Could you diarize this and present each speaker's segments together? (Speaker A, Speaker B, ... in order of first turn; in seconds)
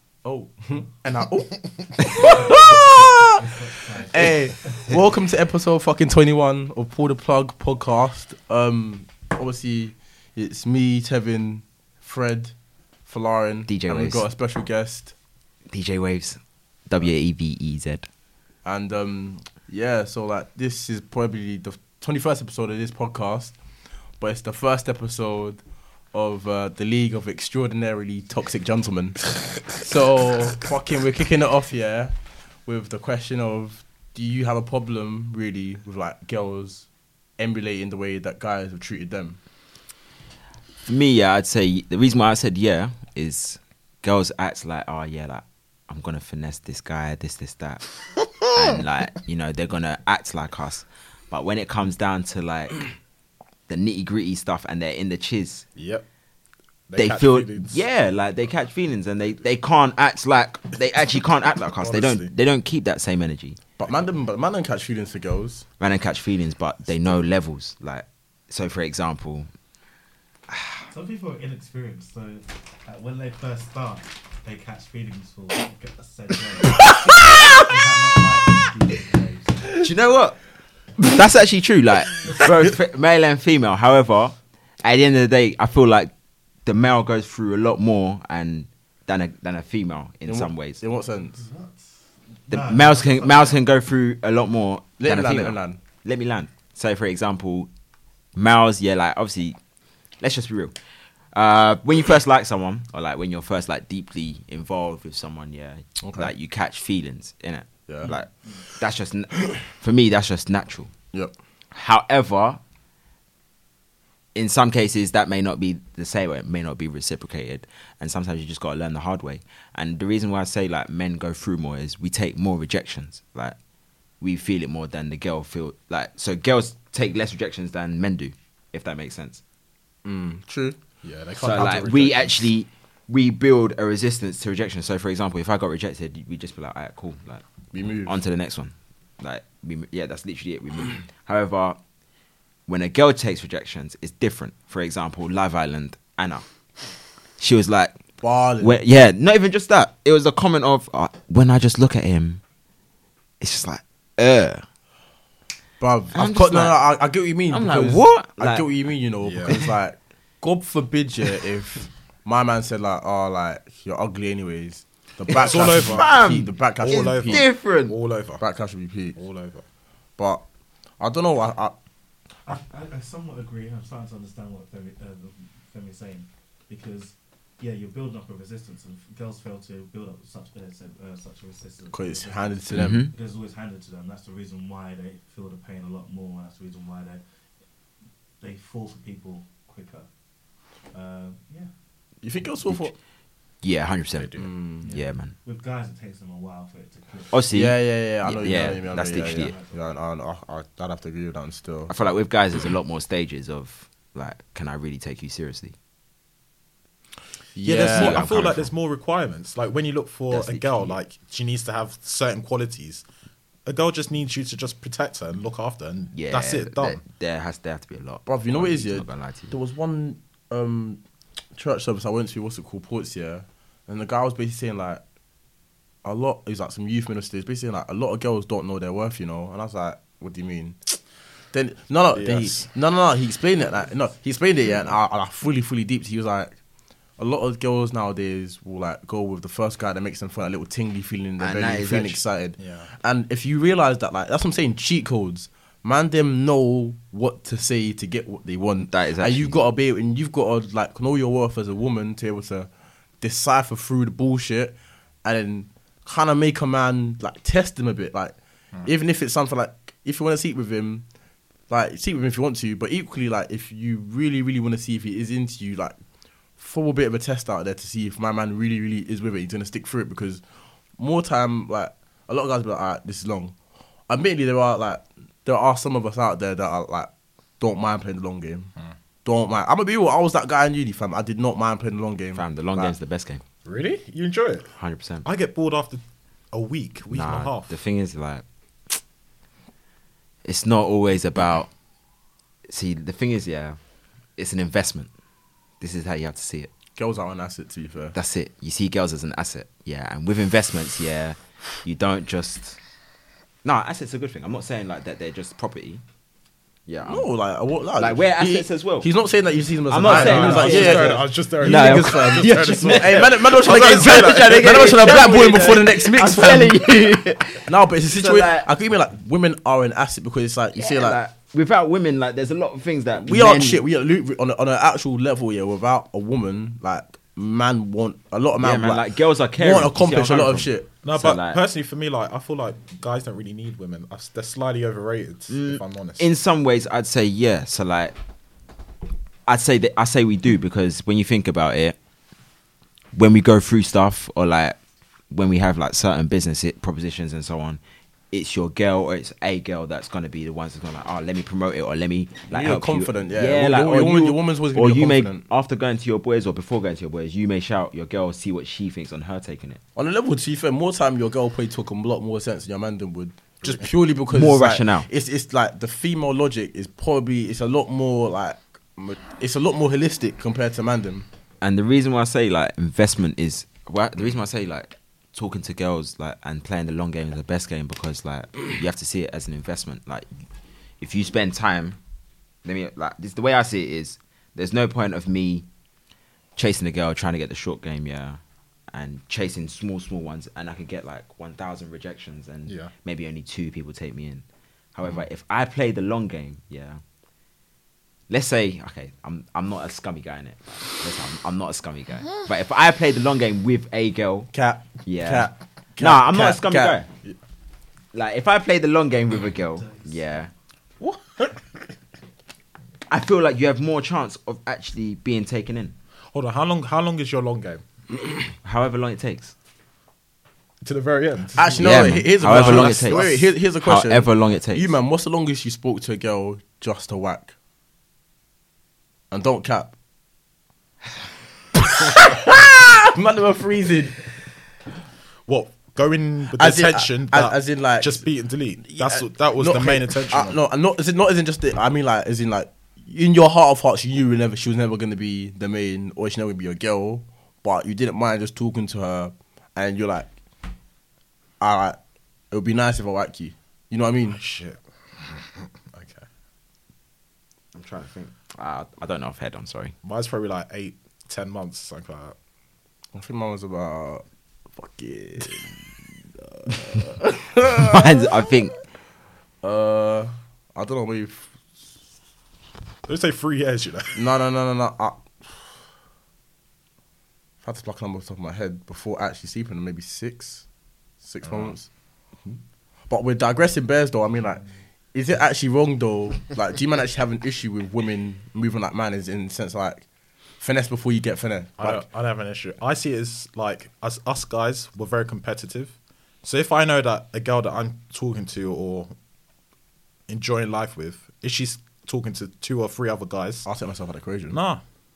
Speaker A: 0.2-3.5, 4.1-15.1, 18.6-23.6, 24.2-36.9, 37.4-39.4, 63.8-65.7, 90.3-91.4, 95.0-95.8, 106.0-106.3, 107.9-108.1, 130.0-130.8, 137.7-138.2, 148.2-148.8, 155.8-167.5, 168.4-169.2, 170.2-170.4, 171.0-171.8, 181.9-183.1, 192.2-192.9, 194.4-194.9, 197.5-201.9, 207.6-208.2, 218.3-221.0, 221.6-225.0, 226.0-231.0, 231.5-236.6, 237.2-252.7, 253.2-261.1, 261.7-266.0, 266.6-270.4, 271.0-273.6, 274.1-278.7, 279.2-282.9, 296.9-298.2, 307.1-317.0, 317.7-321.2, 323.3-329.1, 329.6-330.9, 352.5-355.4, 360.0-371.3, 404.5-407.0, 421.6-427.5, 429.3-429.9, 432.0-434.3, 436.6-438.2, 438.8-450.3, 451.6-452.0, 452.5-454.4, 463.1-465.8, 466.4-468.3, 469.6-471.6, 474.1-475.3, 477.6-480.6, 481.2-481.9, 483.1-490.1, 490.6-492.0, 503.7-504.6
Speaker B: 3.4-4.3, 70.9-79.7, 91.3-91.8, 92.5-93.6, 108.1-108.6, 172.5-187.2, 188.4-190.1, 190.9-191.7, 194.8-197.4, 198.6-199.8
Speaker C: 13.7-14.3, 15.7-18.1, 40.9-52.8, 53.7-55.6, 57.0-63.6, 65.8-69.5, 79.7-80.4, 81.0-86.1, 86.7-90.8, 92.5-97.7, 98.3-99.6, 100.2-100.7, 101.3-110.9, 111.7-112.6, 114.3-123.6, 124.2-129.4, 131.4-137.4, 138.1-141.8, 142.7-146.4, 147.4-147.9, 148.6-152.4, 153.4-154.6, 156.1-156.8, 157.5-158.7, 165.3-168.0, 182.7-183.1, 193.6-195.3, 197.3-199.5, 201.9-205.8, 207.8-208.7, 210.3-210.9, 216.1-219.5, 241.4-242.2, 248.9-249.6, 282.4-283.4, 284.8-285.3, 287.1-288.4, 290.4-291.7, 292.7-293.8, 294.4-295.1, 295.8-296.7, 298.1-302.8, 303.6-306.0, 306.9-307.3, 308.0-309.1, 309.9-318.7, 320.8-323.8, 328.6-331.6, 335.5-338.1, 339.5-342.0, 343.1-344.8, 345.3-347.8, 348.3-359.8, 364.3-365.1, 371.6-380.3, 381.0-382.0, 382.6-385.7, 386.6-388.4, 388.9-394.4, 394.9-397.0, 398.3-404.5, 405.1-407.1, 408.1-410.5, 413.1-415.9, 418.6-419.5, 421.8-424.9, 457.7-459.9, 467.8-468.8
Speaker D: 55.8-56.0, 56.9-57.8, 61.8-62.3, 131.0-132.5, 159.2-159.5, 165.4-166.2, 166.8-168.4, 169.2-169.6, 194.2-194.4, 207.6-213.0, 213.7-217.0, 232.1-232.7, 242.6-242.9, 283.6-284.7, 285.2-287.7, 310.0-315.1, 331.0-336.2, 363.6-363.9, 411.0-411.6, 416.3-417.8, 420.8-423.3, 435.5-440.6, 454.3-456.2, 460.0-462.4, 473.1-474.2, 481.4-481.7, 491.8-499.1, 500.3-503.7, 504.5-504.8